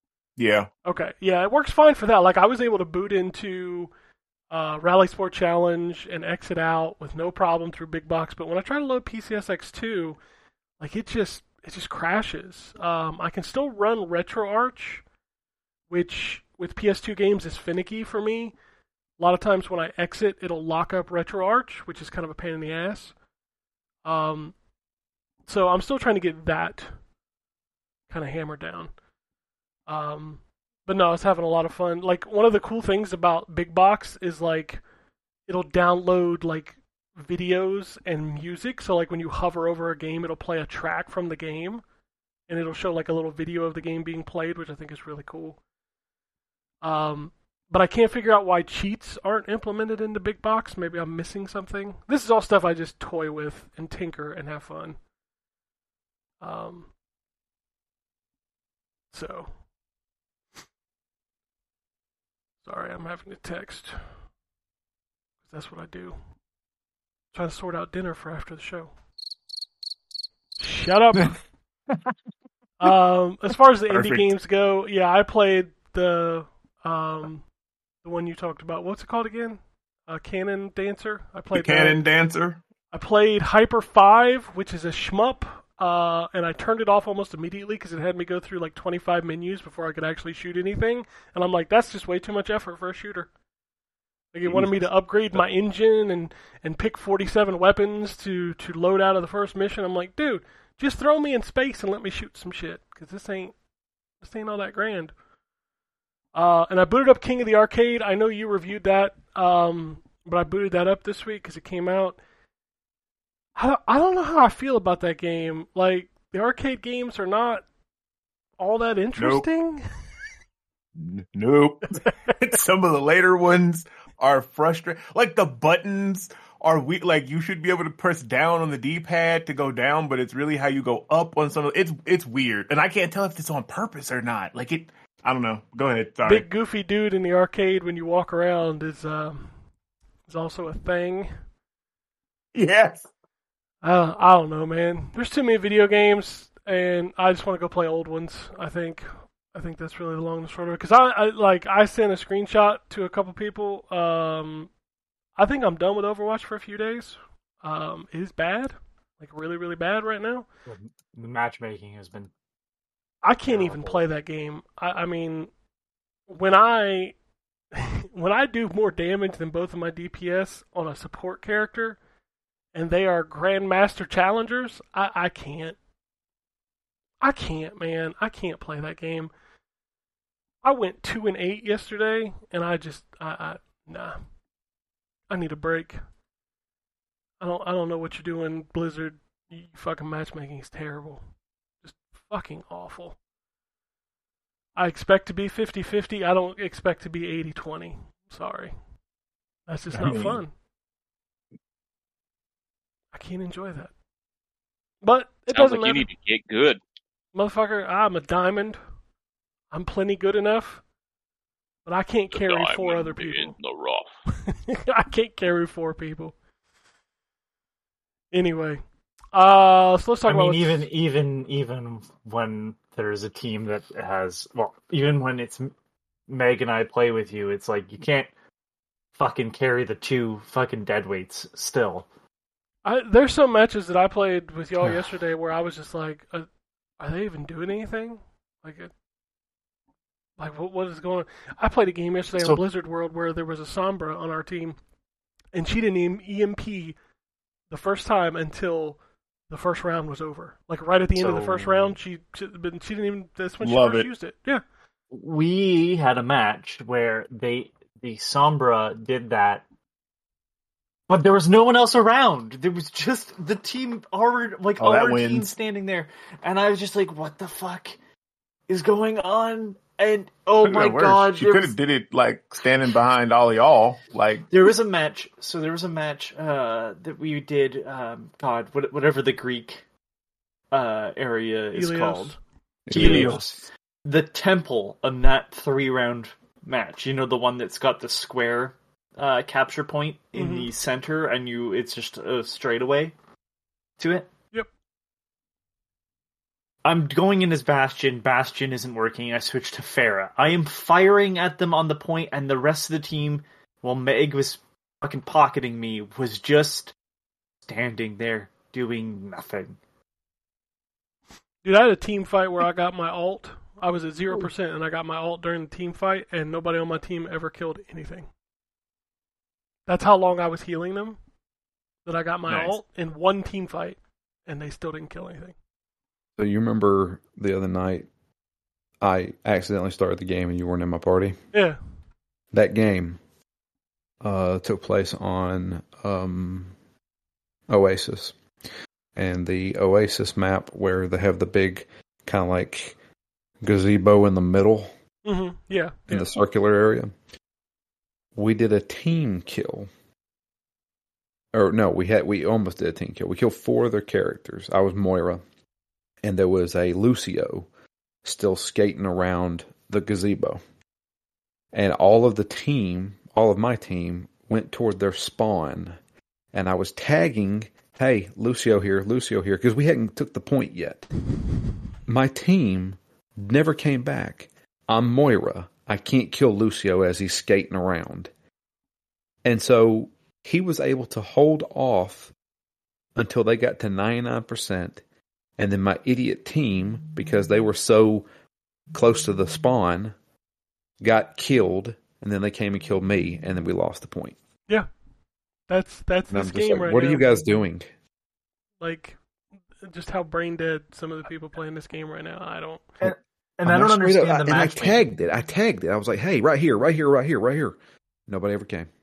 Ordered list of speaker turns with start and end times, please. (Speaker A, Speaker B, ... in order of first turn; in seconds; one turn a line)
Speaker A: 0.4-0.7
Speaker B: 0.8-3.9
Speaker B: 4.5-10.2
Speaker B: 10.8-15.0
Speaker B: 15.9-18.6
Speaker B: 19.2-23.1
Speaker B: 24.1-24.6
Speaker B: 25.5-27.0
Speaker B: 28.1-28.9
Speaker B: 29.9-34.8
Speaker B: 35.5-41.8
Speaker B: 42.5-45.6
Speaker B: 46.8-55.0
Speaker B: 56.4-56.9
Speaker B: 59.1-59.6
Speaker B: 62.6-64.1
Speaker B: 65.4-66.2
Speaker B: 67.3-68.9
Speaker B: 70.6-71.4
Speaker B: 72.8-77.5
Speaker A: 73.9-74.3
Speaker B: 78.0-82.0
Speaker A: 81.5-82.6
Speaker B: 82.9-93.3
Speaker B: 94.3-103.5
Speaker A: 94.5-95.5
Speaker B: 104.2-105.1
Speaker B: 106.3-112.2
Speaker B: 113.6-117.7
Speaker B: 118.6-119.8
Speaker A: 119.2-119.5
Speaker A: 121.0-136.5
Speaker B: 121.9-122.5
Speaker B: 136.3-139.6
Speaker B: 140.3-141.3
Speaker A: 142.6-143.1
Speaker B: 143.8-154.7
Speaker B: 155.4-160.5
Speaker C: 160.7-162.3
Speaker B: 163.2-165.5
Speaker C: 163.5-164.0
Speaker B: 166.3-167.2
Speaker B: 167.7-172.0
Speaker B: 172.7-175.8
Speaker B: 177.2-179.3
Speaker B: 180.6-184.2
Speaker B: 185.3-186.0
Speaker B: 187.4-191.2
Speaker B: 191.8-193.2
Speaker B: 194.8-198.8
Speaker B: 199.7-200.5
Speaker A: 199.9-200.4
Speaker B: 203.1-203.9
Speaker B: 205.0-206.1
Speaker D: 205.5-206.8
Speaker B: 207.3-208.8
Speaker B: 209.7-210.8
Speaker B: 211.8-213.6
Speaker D: 212.3-214.1
Speaker B: 214.3-216.3
Speaker B: 218.3-220.9
Speaker C: 220.3-225.7
Speaker C: 226.3-228.3
Speaker C: 229.2-232.1
Speaker B: 232.8-236.5
Speaker B: 237.0-238.9
Speaker B: 240.4-244.8
Speaker C: 242.3-242.6
Speaker B: 245.5-247.0
Speaker B: 247.7-254.6
Speaker C: 251.2-252.0
Speaker A: 253.6-254.1
Speaker C: 255.1-259.6
Speaker C: 261.1-268.0
Speaker A: 264.8-265.5
Speaker C: 268.7-271.7
Speaker A: 270.6-274.5
Speaker C: 274.5-279.8
Speaker C: 280.7-282.3
Speaker B: 281.7-282.4
Speaker E: 282.9-283.4
Speaker C: 282.9-293.1
Speaker A: 282.9-283.6
Speaker B: 290.4-290.7
Speaker C: 294.0-294.3
Speaker C: 296.9-306.9
Speaker C: 307.6-309.8
Speaker B: 311.6-318.3
Speaker B: 319.9-321.2
Speaker B: 322.1-325.5
Speaker A: 322.5-322.8
Speaker E: 326.4-328.1
Speaker E: 329.0-331.4
Speaker B: 331.5-331.8
Speaker E: 332.5-333.2
Speaker E: 334.2-336.7
Speaker E: 337.7-338.4
Speaker E: 339.1-343.0
Speaker E: 343.6-344.9
Speaker B: 345.2-346.3
Speaker E: 346.1-347.1
Speaker E: 348.4-349.9
Speaker E: 351.5-355.4
Speaker E: 356.2-357.7
Speaker E: 358.2-360.6
Speaker E: 361.7-366.0
Speaker E: 366.5-371.1
Speaker E: 372.1-378.3
Speaker E: 379.4-382.3
Speaker E: 383.2-385.0
Speaker E: 385.6-388.3
Speaker E: 388.9-390.1
Speaker E: 391.0-394.4
Speaker B: 395.7-397.3
Speaker E: 396.3-397.9
Speaker B: 398.8-399.2
Speaker B: 399.8-403.0
Speaker C: 403.0-405.1
Speaker E: 403.6-408.9